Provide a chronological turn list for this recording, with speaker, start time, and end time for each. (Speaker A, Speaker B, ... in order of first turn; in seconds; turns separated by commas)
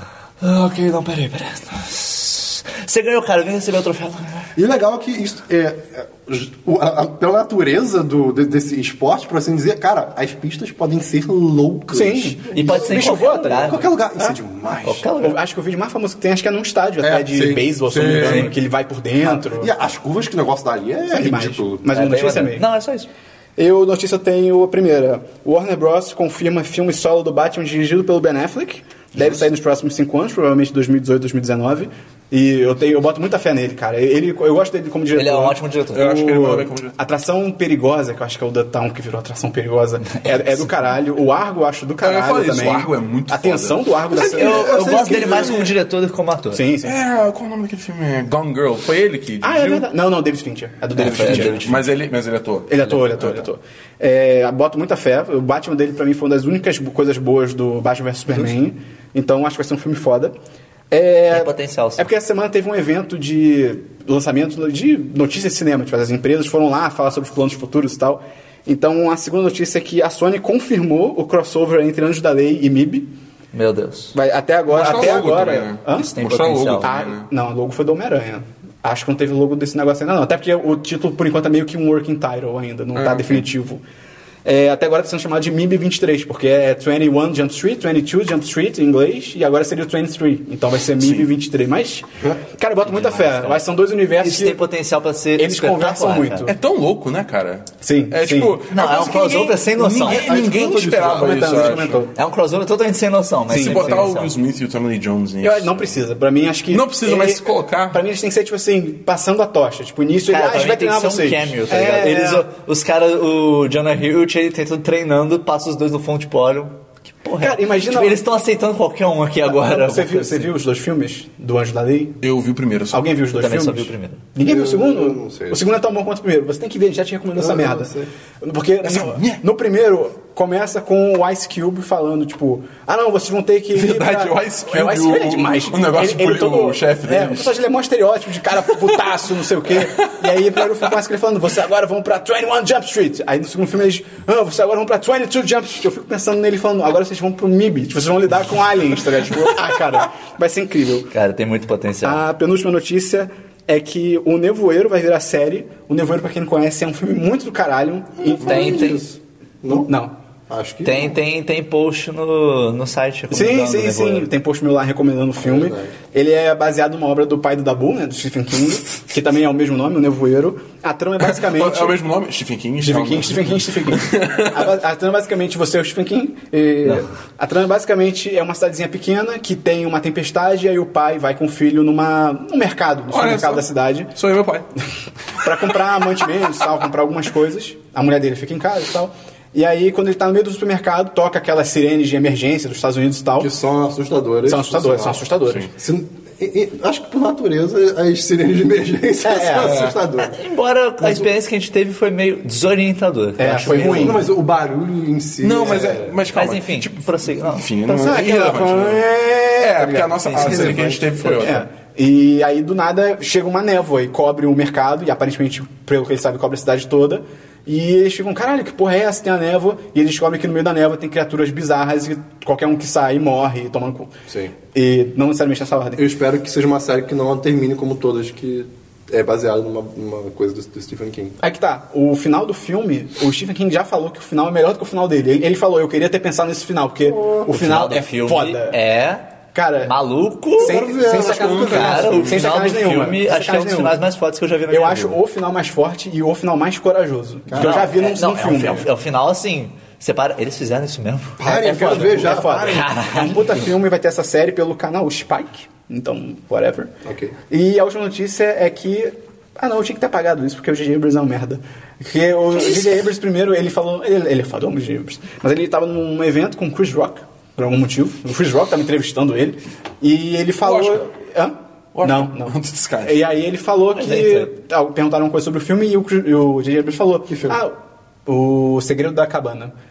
Speaker A: 0.4-4.5, Speaker B: 4.5-15.1, Speaker C: 11.9-14.3, Speaker A: 12.5-13.9, Speaker A: 14.8-15.4, Speaker C: 15.2-19.7, Speaker B: 17.0-18.5, Speaker A: 18.1-18.5, Speaker B: 19.2-21.9, Speaker C: 21.1-22.6, Speaker A: 21.9-23.1, Speaker C: 23.6-44.8, Speaker A: 35.1-36.1, Speaker D: 35.9-37.0, Speaker D: 42.0-45.7, Speaker B: 44.2-45.6, Speaker A: 44.2-46.6, Speaker C: 46.5-47.0, Speaker D: 46.8-49.9, Speaker C: 49.4-51.8, Speaker A: 51.0-51.8, Speaker D: 51.0-53.4, Speaker C: 52.7-60.3, Speaker C: 60.9-73.1, Speaker A: 61.3-62.1, Speaker A: 73.5-74.1, Speaker C: 74.1-76.1, Speaker D: 74.7-77.3, Speaker A: 75.9-76.9, Speaker C: 76.8-83.8, Speaker D: 82.9-83.4, Speaker C: 84.4-94.6, Speaker D: 91.0-91.3, Speaker A: 92.8-93.7, Speaker A: 94.2-96.5, Speaker C: 95.4-96.5, Speaker D: 96.4-102.0, Speaker C: 97.8-98.6, Speaker A: 98.7-100.4, Speaker B: 100.0-101.9, Speaker C: 101.0-102.1, Speaker A: 102.1-104.3, Speaker C: 103.5-104.1, Speaker D: 103.5-105.9, Speaker C: 105.4-112.5, Speaker D: 106.7-108.0, Speaker A: 110.3-120.5, Speaker C: 117.4-118.2, Speaker C: 119.4-122.2, Speaker D: 122.2-123.0, Speaker C: 122.9-151.1, Speaker A: 123.3-124.2, Speaker B: 124.4-125.7, Speaker B: 127.4-128.1, Speaker D: 128.8-129.4, Speaker D: 133.7-137.5, Speaker D: 140.0-140.3, Speaker A: 151.1-152.2, Speaker C: 152.0-158.9, Speaker B: 158.3-159.9, Speaker A: 158.4-159.1, Speaker C: 159.8-160.1, Speaker B: 160.5-161.2, Speaker A: 160.8-164.3, Speaker C: 163.3-172.0, Speaker B: 165.4-165.9, Speaker D: 171.2-174.7, Speaker C: 172.8-184.1, Speaker D: 183.1-184.7, Speaker C: 185.4-193.5, Speaker B: 193.4-195.2, Speaker C: 194.4-195.7, Speaker B: 195.7-200.4, Speaker C: 199.2-199.9, Speaker D: 199.6-200.0, Speaker A: 200.2-204.2, Speaker C: 203.4-204.2, Speaker B: 203.7-206.2, Speaker D: 205.4-209.1, Speaker A: 206.3-207.7, Speaker C: 207.8-224.1, Speaker D: 209.6-211.6, Speaker B: 210.3-211.5, Speaker C: 224.7-226.0, Speaker B: 226.0-231.4, Speaker C: 231.4-238.8, Speaker B: 237.0-237.5, Speaker A: 237.5-239.2, Speaker C: 239.5-239.9, Speaker A: 239.8-245.2, Speaker C: 240.6-244.0, Speaker B: 240.6-242.4, Speaker D: 241.3-242.0, Speaker C: 244.7-248.9, Speaker B: 247.5-247.9, Speaker A: 247.6-251.4, Speaker B: 251.4-252.9, Speaker C: 251.4-256.9, Speaker A: 252.6-253.5, Speaker B: 257.0-257.4, Speaker C: 257.5-279.7, Speaker D: 270.6-271.0, Speaker D: 271.9-273.2, Speaker A: 274.0-274.5, Speaker B: 277.3-277.6